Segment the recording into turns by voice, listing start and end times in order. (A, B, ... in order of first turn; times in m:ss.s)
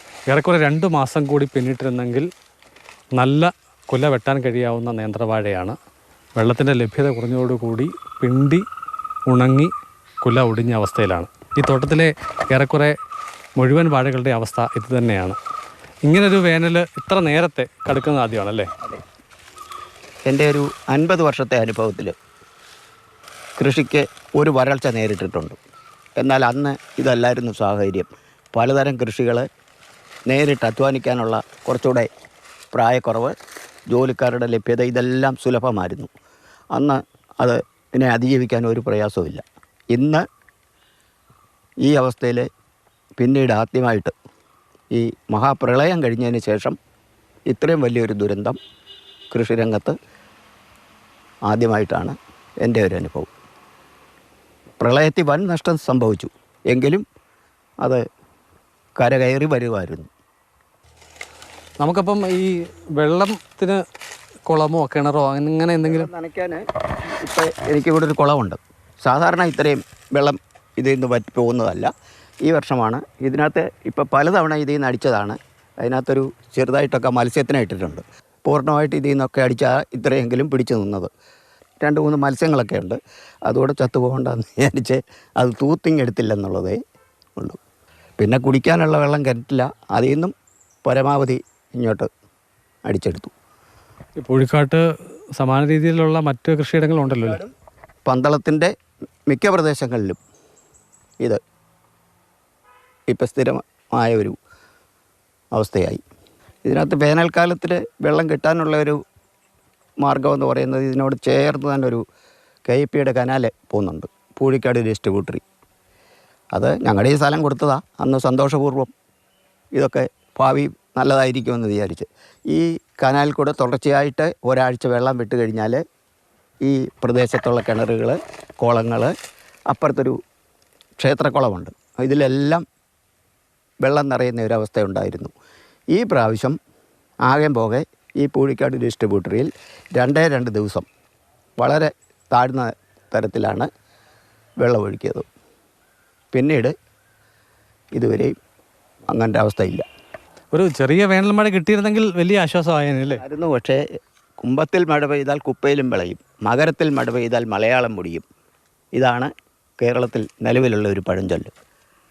0:00.3-0:02.3 A
0:03.2-0:05.8 A
0:06.4-0:08.6 A
0:09.3-0:09.7 A
0:10.2-0:12.9 A
0:13.6-0:15.4 A
0:16.1-0:18.7 A
0:20.3-0:22.2 B
0:23.6-0:25.6 B
0:26.2-0:29.4 B
0:30.3-0:32.1 B
0:32.7-0:33.3 B
0:33.9-0:36.1 B
0:36.7-0:40.2 B
0:41.8-0:42.5 B
0:43.2-0:44.1 B
0:44.9-0:46.8 B
0:47.5-0:48.6 B
0:49.3-0:49.9 B
0:51.5-0:53.3 B
0:54.8-0:57.0 B
0:59.0-1:00.1 B
1:01.8-1:03.8 A
1:04.5-1:06.1 A
1:05.8-1:06.6 B
1:07.2-1:11.9 B
1:12.4-1:21.1 B
1:21.8-1:26.8 B
1:28.2-1:30.3 B
1:30.8-1:32.1 B
1:32.9-1:33.3 B
1:34.2-1:34.8 A
1:35.4-1:37.4 A
1:37.2-1:37.5 B
1:38.0-1:38.7 B
1:39.3-1:40.2 B
1:43.1-1:44.4 B
1:45.5-1:46.0 B
1:46.6-1:49.0 B
1:50.0-1:52.0 B
1:52.6-1:55.4 B
1:56.5-1:58.9 B
1:59.7-2:05.8 B
2:06.6-2:09.1 B
2:09.7-2:10.2 B
2:11.0-2:12.6 B
2:13.8-2:15.3 B
2:15.9-2:16.6 B
2:17.3-2:20.8 B
2:21.6-2:23.7 B
2:24.6-2:25.3 B
2:26.3-2:26.7 B
2:28.0-2:28.3 B
2:29.1-2:29.8 B
2:30.5-2:33.2 A
2:33.2-2:33.8 B
2:34.4-2:38.2 B
2:39.0-2:41.5 B